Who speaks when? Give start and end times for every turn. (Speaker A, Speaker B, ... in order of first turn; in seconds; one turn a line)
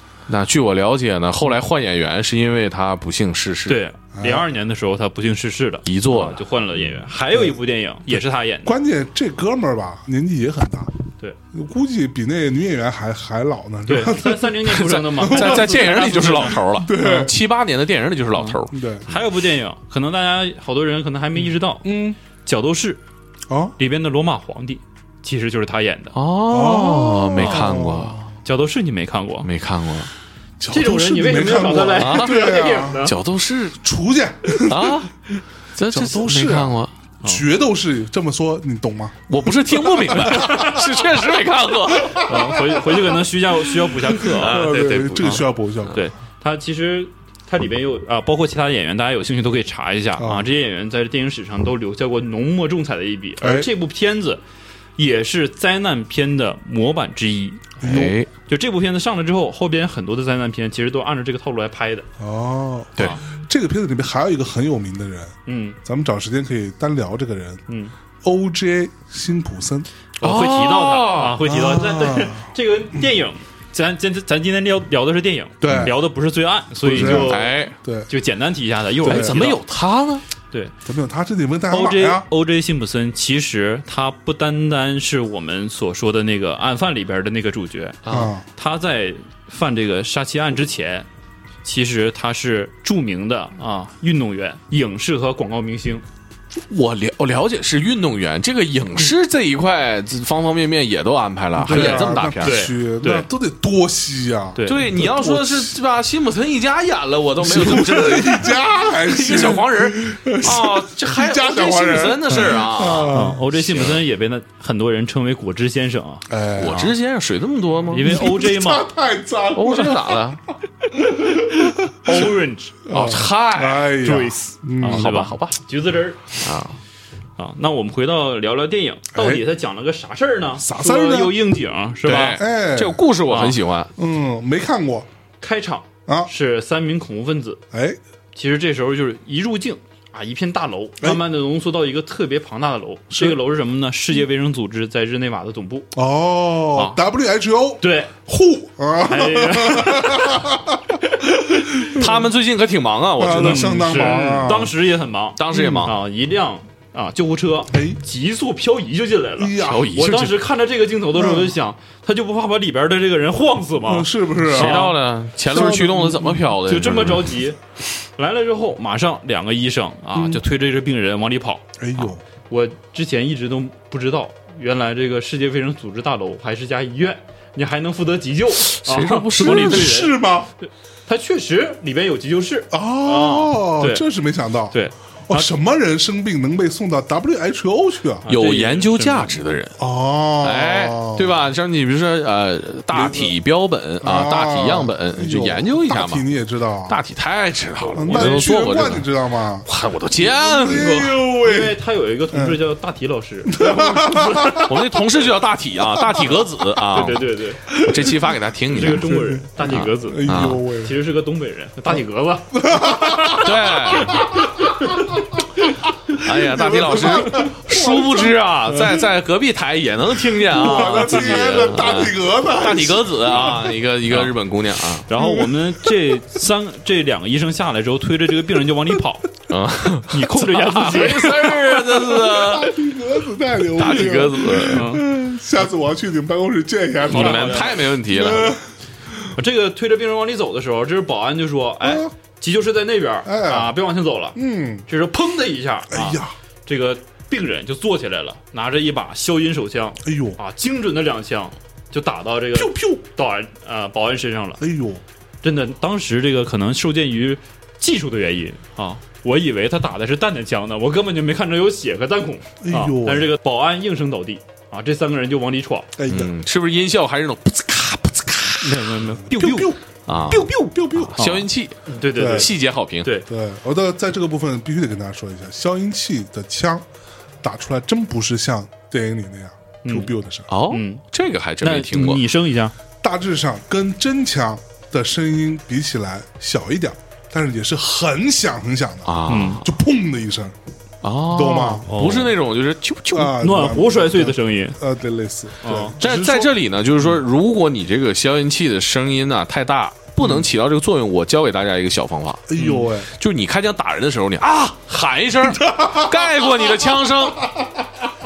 Speaker A: 0.3-3.8
Speaker B: 3.7-8.8
Speaker C: 4.1-4.5
Speaker A: 5.8-6.4
Speaker C: 8.1-14.6
Speaker B: 13.9-16.6
Speaker A: 14.6-18.7
Speaker C: 15.2-17.3
Speaker B: 18.4-21.9
Speaker C: 18.7-19.1
Speaker C: 21.4-22.2
Speaker B: 22.4-23.0
Speaker C: 23.5-23.8
Speaker B: 23.8-26.1
Speaker A: 26.1-28.2
Speaker C: 26.5-28.3
Speaker B: 27.4-27.7
Speaker B: 28.4-29.5
Speaker A: 29.4-30.1
Speaker C: 30.6-33.1
Speaker B: 30.7-33.1
Speaker A: 32.0-32.3
Speaker A: 33.0-33.8
Speaker C: 33.8-35.1
Speaker A: 34.6-35.1
Speaker A: 35.8-36.9
Speaker C: 35.9-40.8
Speaker A: 39.3-42.3
Speaker B: 40.3-40.8
Speaker C: 41.9-43.1
Speaker B: 42.2-54.4
Speaker C: 43.7-46.0
Speaker A: 44.3-45.4
Speaker C: 50.2-50.5
Speaker C: 53.4-53.7
Speaker B: 55.0-62.1
Speaker A: 57.8-58.3
Speaker C: 62.2-67.6
Speaker B: 65.5-65.8
Speaker B: 67.7-67.9
Speaker C: 68.2-69.9
Speaker B: 70.2-77.5
Speaker A: 70.2-71.5
Speaker C: 71.4-72.5
Speaker C: 75.6-76.0
Speaker A: 75.7-75.9
Speaker C: 76.8-78.1
Speaker A: 76.9-77.7
Speaker B: 78.1-79.6
Speaker C: 79.0-79.4
Speaker A: 79.0-80.2
Speaker C: 80.8-82.3
Speaker B: 81.7-91.1
Speaker A: 88.0-88.3
Speaker C: 88.1-88.5
Speaker B: 91.6-96.0
Speaker A: 96.7-102.6
Speaker C: 101.6-105.7
Speaker B: 101.7-103.3
Speaker B: 104.5-105.0
Speaker A: 104.6-114.0
Speaker C: 107.4-113.4
Speaker B: 113.1-116.8
Speaker C: 116.3-116.9
Speaker A: 116.6-118.1
Speaker B: 117.9-118.9
Speaker C: 117.9-120.2
Speaker A: 119.5-120.4
Speaker C: 120.9-122.3
Speaker B: 122.0-122.9
Speaker C: 122.9-125.1
Speaker A: 122.9-124.0
Speaker B: 124.0-126.3
Speaker A: 124.8-125.6
Speaker A: 126.4-126.8
Speaker B: 127.4-132.4
Speaker C: 129.1-129.4
Speaker C: 130.6-131.3
Speaker A: 132.1-133.9
Speaker C: 132.3-133.0
Speaker B: 133.3-133.6
Speaker C: 134.0-135.1
Speaker B: 135.4-137.6
Speaker C: 137.7-138.0
Speaker B: 138.3-145.9
Speaker C: 143.1-143.4
Speaker C: 145.9-152.2
Speaker B: 147.8-148.2
Speaker B: 149.1-150.5
Speaker A: 151.9-154.3
Speaker C: 153.2-154.8
Speaker B: 153.2-165.0
Speaker A: 155.4-155.9
Speaker C: 155.5-155.9
Speaker C: 157.7-158.0
Speaker C: 159.4-159.9
Speaker A: 159.6-160.4
Speaker C: 161.1-161.5
Speaker C: 163.8-164.9
Speaker A: 164.5-167.3
Speaker C: 165.5-166.5
Speaker B: 166.6-167.6
Speaker B: 168.2-171.6
Speaker C: 170.1-170.4
Speaker C: 171.8-172.2
Speaker B: 172.5-180.4
Speaker A: 178.6-179.9
Speaker C: 179.4-180.5
Speaker B: 181.1-184.0
Speaker C: 182.7-188.3
Speaker B: 184.7-185.5
Speaker B: 188.2-189.4
Speaker A: 188.3-189.8
Speaker C: 189.8-191.3
Speaker A: 190.4-196.2
Speaker C: 192.9-193.3
Speaker C: 194.0-197.0
Speaker A: 196.9-199.1
Speaker B: 197.9-198.5
Speaker C: 198.0-199.7
Speaker A: 199.6-201.2
Speaker C: 200.2-201.8
Speaker B: 201.4-204.7
Speaker C: 202.3-202.6
Speaker C: 203.5-204.8
Speaker A: 204.6-207.2
Speaker C: 206.0-206.3
Speaker B: 206.9-207.7
Speaker C: 207.7-208.1
Speaker A: 207.8-210.6
Speaker B: 208.7-213.5
Speaker C: 209.0-210.9
Speaker C: 212.5-215.4
Speaker A: 213.3-214.2
Speaker B: 214.0-214.7
Speaker A: 216.2-225.1
Speaker C: 216.3-219.1
Speaker C: 220.3-223.7
Speaker B: 220.6-221.6
Speaker B: 225.1-229.3
Speaker C: 225.1-225.9
Speaker A: 229.5-232.8
Speaker B: 230.1-232.0
Speaker C: 232.2-238.6
Speaker A: 233.8-234.9
Speaker B: 234.7-235.1
Speaker B: 237.1-237.8
Speaker A: 237.1-238.6
Speaker B: 239.3-254.6
Speaker C: 241.8-242.1
Speaker C: 243.2-243.7
Speaker C: 244.3-244.8
Speaker C: 245.9-246.3
Speaker C: 250.0-250.4
Speaker C: 252.5-253.0
Speaker C: 254.6-255.0
Speaker B: 255.4-265.9
Speaker C: 262.6-263.3
Speaker C: 266.0-266.3
Speaker A: 266.1-268.7
Speaker B: 268.6-269.8
Speaker C: 269.2-269.8
Speaker A: 270.1-273.1
Speaker C: 270.3-271.2
Speaker B: 270.3-273.3
Speaker C: 272.1-272.5
Speaker C: 273.3-276.9
Speaker C: 277.4-280.5
Speaker B: 279.8-280.1
Speaker A: 280.5-282.2
Speaker B: 280.7-281.0
Speaker B: 281.6-282.7
Speaker C: 283.0-290.6
Speaker A: 289.1-289.7
Speaker B: 289.3-289.6
Speaker A: 291.0-293.4
Speaker C: 291.3-291.9
Speaker B: 291.9-292.3
Speaker C: 293.1-296.5
Speaker B: 293.4-294.8
Speaker B: 295.6-296.0
Speaker A: 296.0-302.5
Speaker C: 302.5-303.1
Speaker B: 302.6-302.9
Speaker A: 303.1-307.4
Speaker C: 305.6-306.6
Speaker C: 307.4-307.8